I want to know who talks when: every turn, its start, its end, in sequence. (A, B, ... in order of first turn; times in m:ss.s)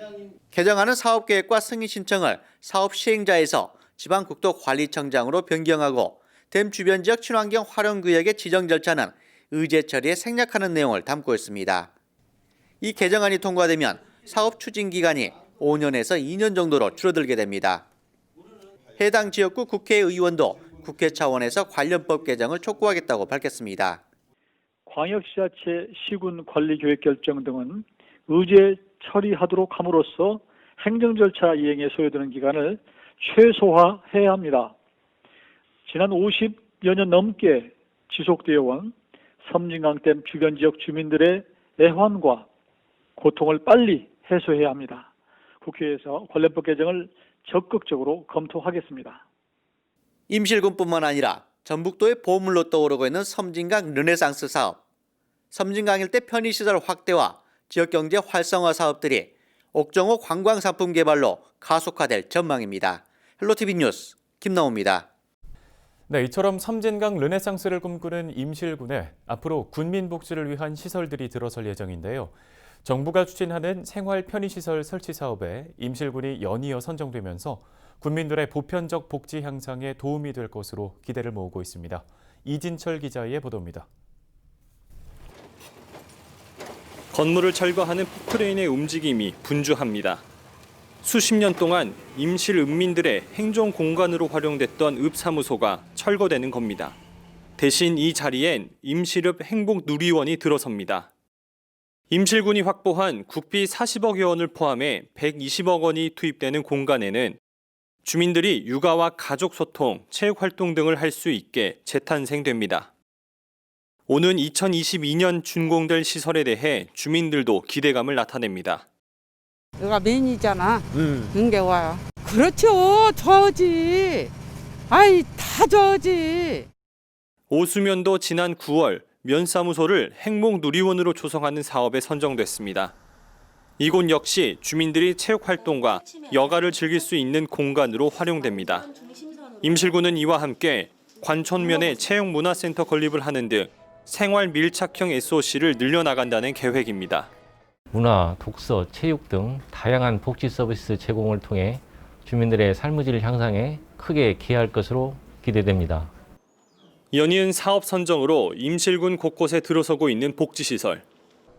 0:00.5-0:11.9 A
0:12.8-0:17.8 A
0:19.0-0:24.0 A
0:24.9-0:34.7 B
0:35.9-0:38.9 B
0:39.4-0:42.4 B
0:43.2-0:45.1 B
0:45.6-0:49.2 B
0:50.3-0:54.8 A
0:55.5-1:05.0 A
1:06.1-1:23.9 C
1:27.1-1:30.2 D
1:31.0-1:37.0 D
1:37.6-1:41.1 D
1:42.1-1:47.4 D
1:48.0-1:52.9 D
1:54.1-1:58.8 D
1:59.8-2:04.3 E
2:04.9-2:06.7 E
2:07.5-2:12.9 D
2:13.8-2:18.9 D
2:19.6-2:27.3 D
2:27.9-2:36.1 F
2:37.1-2:41.0 D